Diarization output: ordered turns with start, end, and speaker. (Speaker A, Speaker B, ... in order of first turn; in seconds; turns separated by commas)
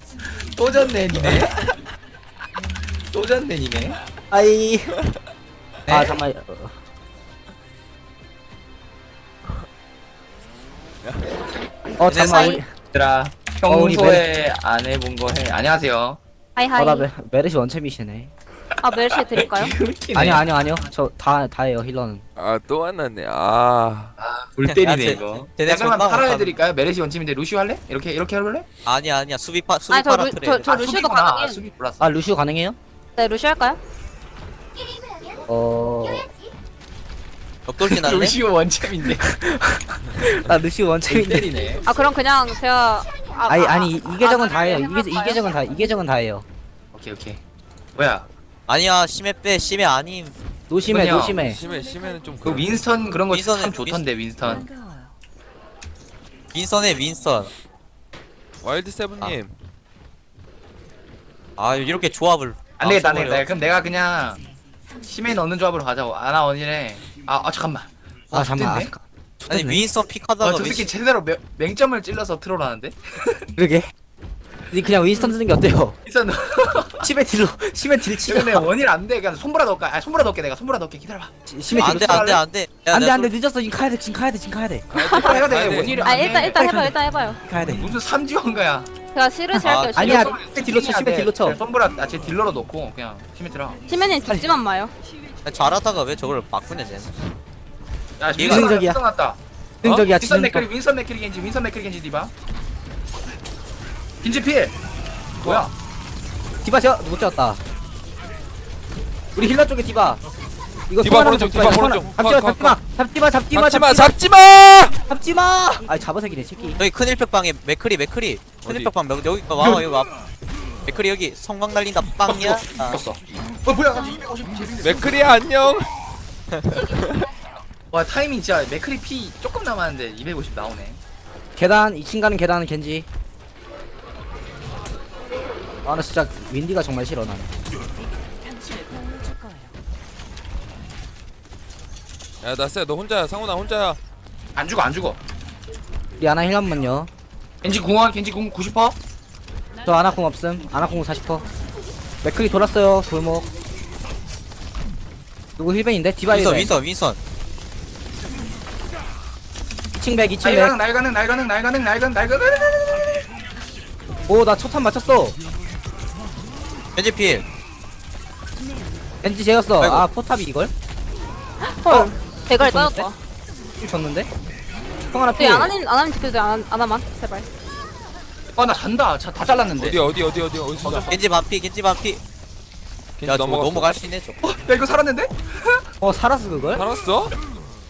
Speaker A: 0.2-1.5, Speaker B: 1.2-1.8, Speaker A: 3.1-4.0, Speaker C: 4.3-4.9, Speaker A: 5.9-6.2, Speaker C: 5.9-6.7, Speaker B: 11.0-11.3, Speaker C: 12.0-12.7, Speaker D: 12.1-12.6, Speaker E: 12.3-12.6, Speaker A: 12.9-16.2, Speaker C: 13.7-14.2, Speaker E: 16.6-17.1, Speaker C: 16.8-18.3, Speaker E: 18.8-19.7, Speaker A: 19.1-20.5, Speaker C: 20.1-22.2, Speaker B: 22.4-24.1, Speaker A: 24.2-28.7, Speaker D: 24.6-26.6, Speaker D: 28.9-30.7, Speaker E: 29.9-31.6, Speaker A: 30.6-32.1, Speaker C: 32.0-32.8, Speaker E: 33.2-33.8, Speaker C: 35.5-36.3, Speaker D: 37.7-38.4, Speaker A: 37.8-39.2, Speaker C: 39.0-41.5, Speaker A: 41.1-41.8, Speaker E: 41.9-45.5, Speaker C: 43.5-46.4, Speaker A: 46.9-47.4, Speaker A: 48.0-48.3, Speaker D: 48.7-50.3, Speaker C: 50.7-51.6, Speaker A: 50.9-51.4, Speaker B: 51.3-52.9, Speaker A: 52.4-54.7, Speaker D: 53.3-54.5, Speaker D: 56.5-57.5, Speaker B: 58.6-59.5, Speaker D: 61.6-63.5, Speaker A: 62.8-64.4, Speaker A: 65.0-68.9, Speaker C: 68.3-69.8, Speaker D: 69.5-70.9, Speaker A: 70.4-73.5, Speaker C: 73.6-73.9, Speaker C: 74.7-76.0, Speaker A: 76.0-77.1, Speaker C: 77.0-78.7, Speaker A: 78.2-82.4, Speaker C: 81.5-84.8, Speaker D: 81.8-83.3, Speaker B: 84.9-86.3, Speaker E: 85.0-85.3, Speaker A: 85.0-86.6, Speaker E: 86.0-87.4, Speaker C: 86.3-87.9, Speaker A: 87.6-88.9, Speaker E: 89.1-90.3, Speaker C: 89.5-91.6, Speaker D: 89.6-90.1, Speaker A: 90.0-93.8, Speaker E: 93.9-94.9, Speaker C: 94.3-94.5, Speaker D: 95.4-97.1, Speaker A: 98.2-99.4, Speaker C: 98.4-99.0, Speaker D: 98.4-98.7, Speaker C: 99.8-100.7, Speaker A: 100.1-102.3, Speaker A: 104.2-104.7, Speaker B: 105.4-105.7, Speaker A: 105.4-105.7, Speaker C: 106.6-107.6, Speaker C: 109.3-110.2, Speaker C: 110.9-114.1, Speaker B: 111.0-112.8, Speaker B: 113.5-115.0, Speaker C: 115.1-116.8, Speaker D: 116.8-120.1, Speaker B: 118.6-118.9, Speaker A: 119.6-119.8, Speaker D: 120.8-123.0, Speaker A: 122.2-125.2, Speaker B: 124.8-125.9, Speaker B: 126.5-127.2, Speaker A: 127.9-131.0, Speaker C: 131.6-133.1, Speaker C: 135.8-137.6, Speaker B: 142.4-144.0, Speaker A: 144.6-145.2, Speaker C: 146.2-147.1, Speaker A: 147.6-148.9, Speaker C: 149.8-151.4, Speaker C: 152.2-153.5, Speaker C: 155.6-156.7, Speaker D: 156.3-157.2, Speaker C: 160.0-160.7, Speaker A: 160.4-163.2, Speaker C: 164.3-165.3, Speaker D: 166.9-167.4, Speaker C: 169.2-170.7, Speaker D: 169.8-170.1, Speaker E: 171.6-173.2, Speaker C: 171.9-173.1, Speaker C: 173.8-174.3, Speaker C: 175.1-175.7, Speaker E: 175.4-177.4, Speaker A: 178.5-180.0, Speaker B: 179.8-181.1, Speaker A: 180.8-181.2, Speaker D: 181.1-182.2, Speaker B: 183.2-184.0, Speaker D: 183.2-184.4, Speaker A: 184.4-185.5, Speaker C: 186.0-186.8, Speaker B: 186.7-187.3